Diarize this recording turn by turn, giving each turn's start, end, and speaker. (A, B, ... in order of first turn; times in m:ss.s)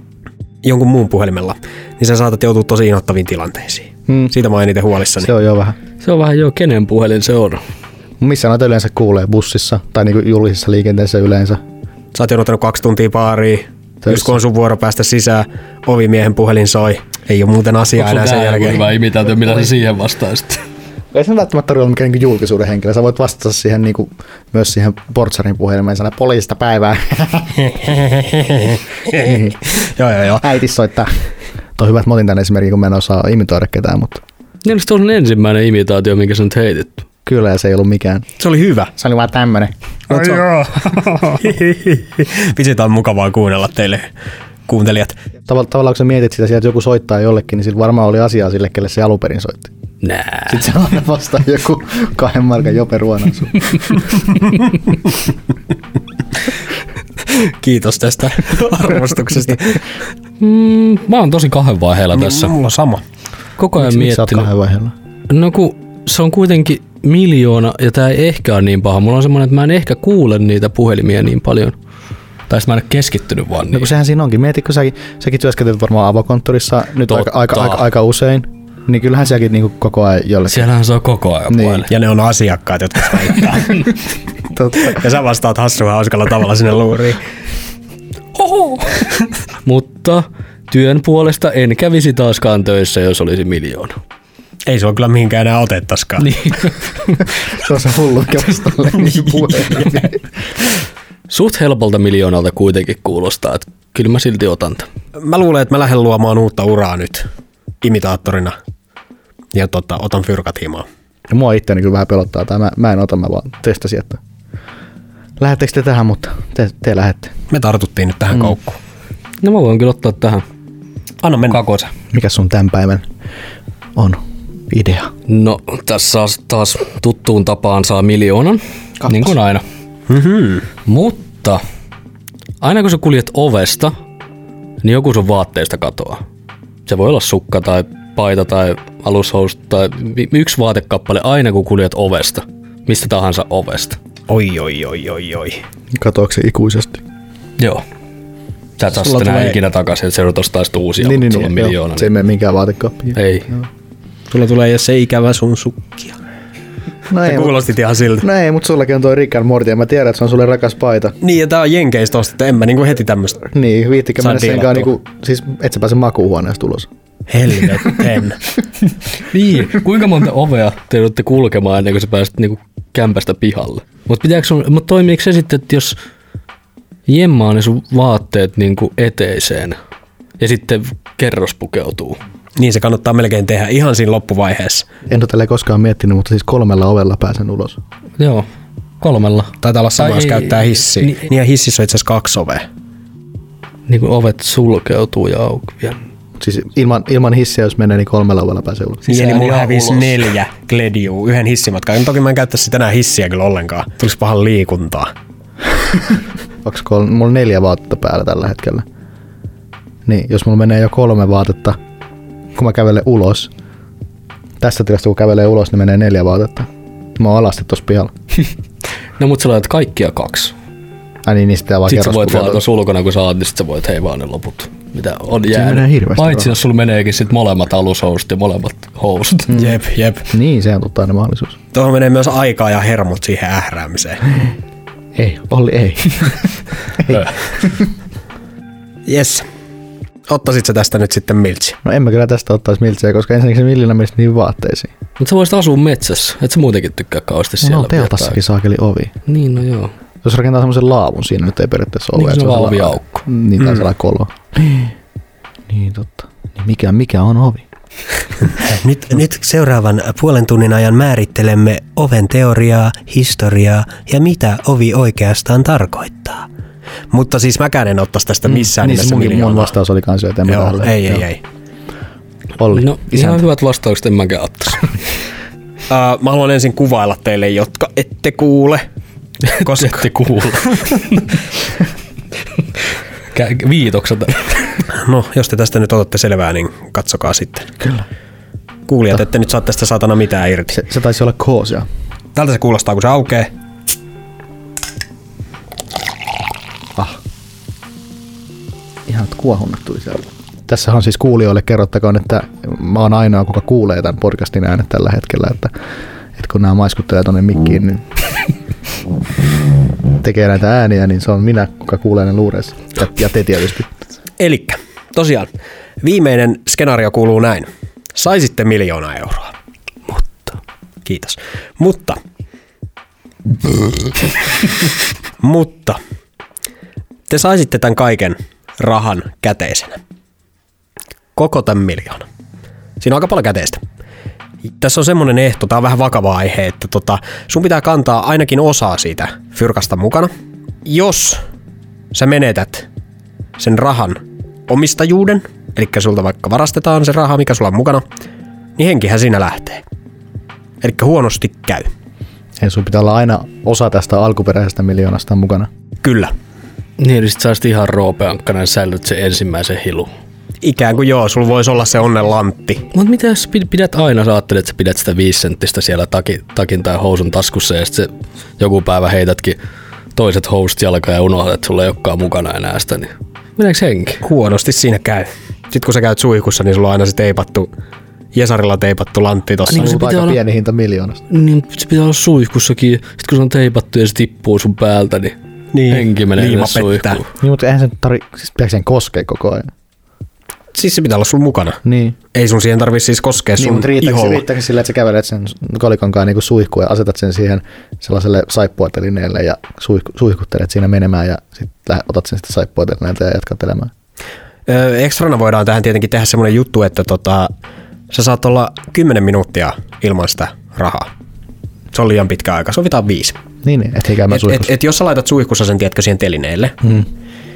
0:00.6-0:05.3 A
0:04.1-0:04.3 B
0:05.2-0:05.8 B
0:06.0-0:07.6 C
0:08.2-0:11.6 B
0:12.1-0:18.9 A
0:14.0-0:14.4 B
0:18.0-0:20.6 C
0:21.1-0:27.7 B
0:27.7-0:30.4 A
0:29.1-0:29.6 B
0:30.4-0:34.2 B
0:34.6-0:37.0 C
0:37.3-0:38.3 B
0:38.4-0:38.9 A
0:39.0-0:40.4 B
0:40.1-0:44.1 A
0:44.7-0:45.2 A
0:45.5-0:49.7 B
0:50.0-0:50.7 C
0:50.5-0:54.1 B
0:57.3-0:59.8 A
1:00.4-1:02.6 C
1:02.1-1:03.0 A
1:03.6-1:04.5 C
1:03.8-1:04.9 B
1:05.3-1:11.8 C
1:12.5-1:13.9 C
1:13.7-1:20.7 B
1:17.1-1:17.8 C
1:20.5-1:21.9 C
1:21.5-1:21.8 B
1:21.9-1:24.0 A
1:24.5-1:25.0 B
1:24.8-1:27.2 A
1:28.4-1:29.1 C
1:29.6-1:33.9 C
1:34.7-1:36.3 A
1:36.2-1:37.2 C
1:37.3-1:40.3 B
1:41.3-1:44.9 C
1:45.2-1:47.2 A
1:47.8-1:48.5 A
1:49.5-1:50.9 A
1:51.3-1:54.2 B
1:55.4-1:57.4 B
1:57.5-1:58.8 A
1:59.4-2:00.4 C
2:01.2-2:01.6 A
2:01.5-2:01.9 C
2:02.1-2:03.0 B
2:04.7-2:05.1 B
2:05.3-2:09.6 C
2:09.0-2:09.4 B
2:10.1-2:10.7 A
2:10.9-2:11.6 C
2:12.6-2:13.9 C
2:14.8-2:16.2 C
2:16.9-2:24.0 C
2:24.3-2:25.6 A
2:25.9-2:27.0 B
2:28.8-2:32.1 C
2:28.9-2:29.6 A
2:31.0-2:33.7 B
2:33.2-2:33.5 C
2:34.3-2:36.2 A
2:37.1-2:41.2 B
2:37.2-2:38.3 A
2:41.2-2:43.5 A
2:43.5-2:46.9 B
2:44.2-2:44.9 A
2:47.3-2:48.4 A
2:49.2-2:56.0 C
2:57.1-2:59.8 C
3:00.4-3:02.2 C
3:02.6-3:04.9 A
3:05.1-3:07.8 B
3:08.2-3:08.4 C
3:09.0-3:11.3 C
3:09.6-3:12.7 A
3:13.9-3:16.0 C
3:16.4-3:19.1 B
3:19.1-3:20.3 C
3:19.1-3:25.1 A
3:26.6-3:28.8 B
3:30.1-3:31.8 B
3:32.6-3:33.5 B
3:34.6-3:38.1 B
3:39.2-3:40.5 C
3:41.3-3:42.6 B
3:41.9-3:49.6 C
3:45.4-3:46.6 B
3:49.5-3:49.8 B
3:49.5-3:50.3 A
3:50.3-3:51.6 B
3:51.7-3:54.2 A
3:55.2-3:57.9 B
3:59.1-3:59.4 A
4:00.3-4:01.8 A
4:01.8-4:04.9 B
4:05.2-4:08.4 C
4:07.6-4:09.1 B
4:09.3-4:09.9 C
4:10.2-4:14.9 B
4:12.2-4:13.2 C
4:15.7-4:17.6 B
4:18.5-4:26.5 A
4:27.1-4:29.8 A
4:28.7-4:31.2 B
4:30.5-4:31.4 A
4:32.6-4:33.4 B
4:32.7-4:35.0 C
4:35.9-4:38.8 A
4:39.5-4:41.5 C
4:39.6-4:40.8 A
4:43.3-4:44.8 C
4:44.9-4:47.7 A
4:47.8-4:48.1 B
4:48.9-4:50.8 A
4:50.7-4:51.9 B
4:52.4-4:53.5 A
4:59.1-5:05.7 B
5:06.4-5:08.1 B
5:10.2-5:14.0 B
5:14.4-5:15.5 A
5:16.0-5:19.5 A
5:20.1-5:20.6 C
5:21.0-5:22.2 A
5:25.4-5:26.0 A
5:27.3-5:30.0 A
5:31.4-5:32.3 A
5:33.0-5:33.8 A
5:34.8-5:40.3 A
5:40.9-5:41.4 A
5:42.1-5:42.9 A
5:43.6-5:48.0 A
5:48.8-5:49.8 A
5:50.8-5:51.9 A
5:52.6-5:55.7 B
5:56.0-5:56.3 A
5:57.0-6:00.1 C
6:00.6-6:02.9 A
6:02.9-6:08.1 C
6:08.6-6:09.6 C
6:10.2-6:14.2 C
6:14.2-6:17.7 A
6:18.3-6:20.0 A
6:19.7-6:20.4 C
6:19.7-6:21.2 B
6:21.3-6:25.4 C
6:25.7-6:27.2 A
6:25.9-6:27.3 C
6:27.4-6:29.7 B
6:30.7-6:31.8 A
6:31.8-6:32.2 B
6:32.3-6:34.5 A
6:33.6-6:43.9 B
6:44.7-6:47.5 A
6:48.1-6:51.1 A
6:51.9-6:53.4 A
6:53.6-6:54.7 B
6:54.3-6:56.8 A
6:56.8-6:57.1 B